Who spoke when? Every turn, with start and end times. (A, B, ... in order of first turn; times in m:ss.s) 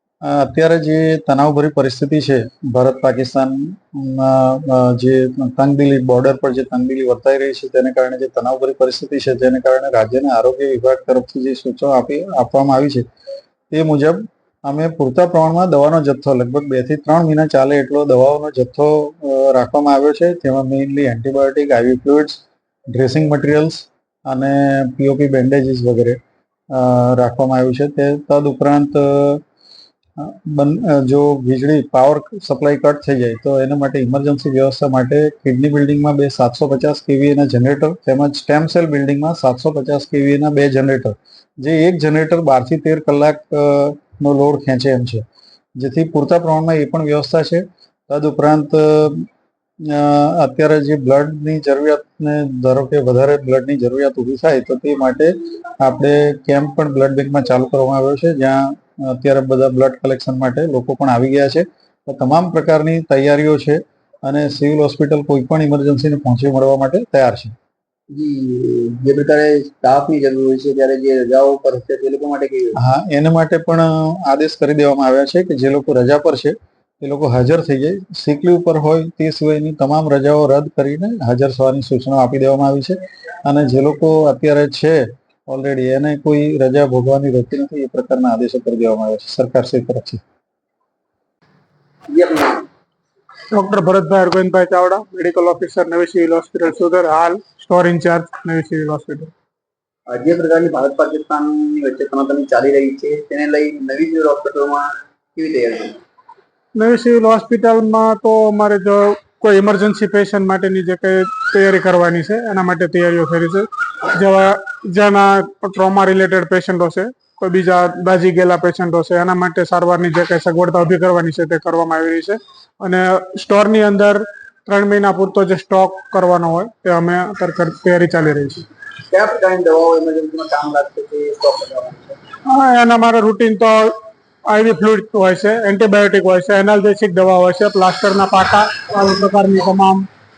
0:00.2-0:13.0 A
0:13.7-0:22.4 A
0:22.9-0:26.2 A
0:26.7-0:29.4 A
0:30.2-0:45.2 A
0:45.8-0:49.3 A
0:49.8-1:07.5 A
1:08.1-1:12.8 B
1:12.8-1:30.2 A
1:32.1-1:32.6 B
1:33.5-1:39.3 C
1:40.1-1:46.0 B
1:46.7-2:08.7 C
2:09.1-2:12.2 B
2:12.4-2:13.9 C
2:14.5-2:20.1 C